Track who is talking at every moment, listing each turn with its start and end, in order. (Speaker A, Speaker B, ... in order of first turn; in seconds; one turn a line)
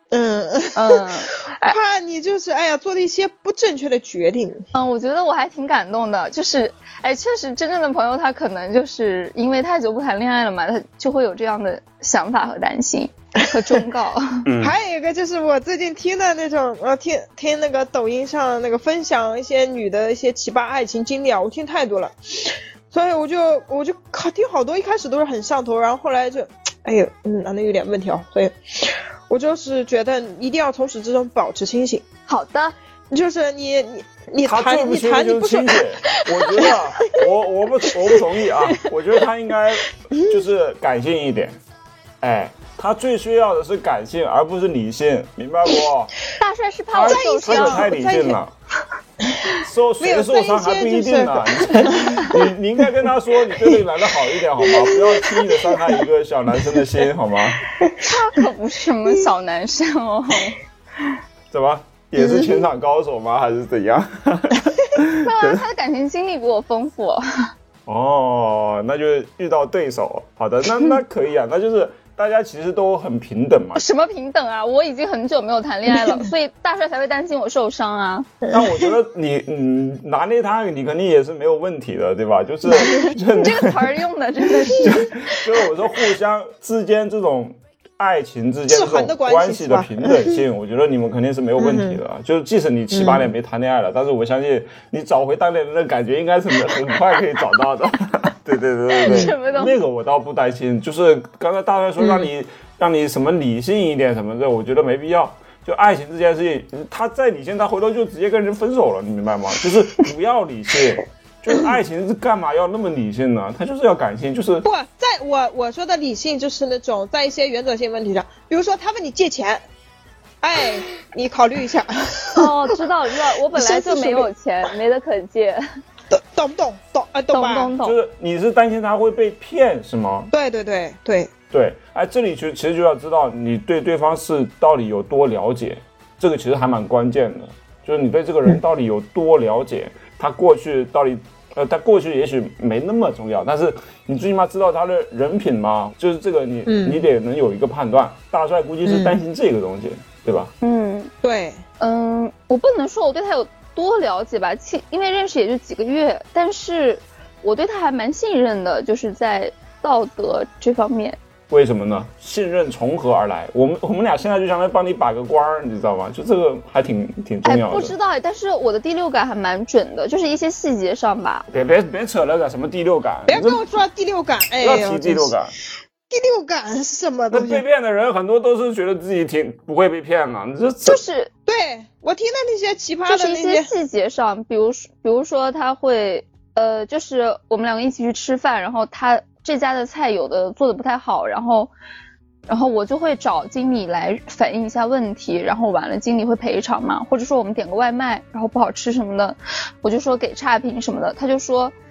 Speaker A: 0.1-1.0
Speaker B: 0.8-1.8
Speaker A: 1.7-4.7
Speaker B: 4.7-14.4
Speaker C: 14.5-14.8
Speaker A: 14.6-32.0
Speaker B: 32.3-32.7
Speaker A: 33.1-35.8
Speaker C: 34.4-41.6
Speaker B: 36.3-36.7
Speaker C: 42.2-46.1
Speaker B: 46.4-47.9
Speaker C: 46.9-48.5
Speaker A: 47.0-48.4
Speaker A: 49.5-52.4
Speaker C: 49.5-57.7
Speaker A: 54.6-56.0
Speaker A: 57.8-58.1
Speaker B: 58.0-60.6
Speaker C: 61.5-65.6
Speaker A: 62.2-62.6
Speaker B: 65.2-67.2
Speaker C: 67.9-73.8
Speaker B: 73.8-78.3
Speaker C: 78.5-84.0
Speaker B: 82.8-85.4
Speaker C: 84.8-114.7
Speaker A: 88.7-90.4
Speaker A: 91.6-92.0
Speaker A: 92.9-93.2
Speaker B: 99.0-99.8
Speaker A: 99.0-99.3
Speaker A: 114.6-119.6
Speaker A: 120.4-122.5
Speaker B: 122.3-125.6
Speaker A: 123.5-124.3
Speaker A: 126.1-127.7
Speaker B: 127.3-128.0
Speaker C: 127.8-130.3
Speaker A: 130.3-131.3
Speaker C: 131.5-150.5
Speaker A: 146.7-147.1
Speaker A: 148.9-149.2
Speaker B: 150.6-151.1
Speaker A: 151.2-151.6
Speaker B: 151.8-161.2
Speaker C: 161.5-167.9
Speaker B: 167.4-171.4
Speaker C: 171.5-173.6
Speaker A: 173.3-175.3
Speaker C: 174.6-175.5
Speaker A: 176.1-177.6
Speaker C: 177.3-181.0
Speaker B: 180.8-181.3
Speaker A: 181.5-183.7
Speaker B: 183.1-191.7
Speaker B: 192.5-201.7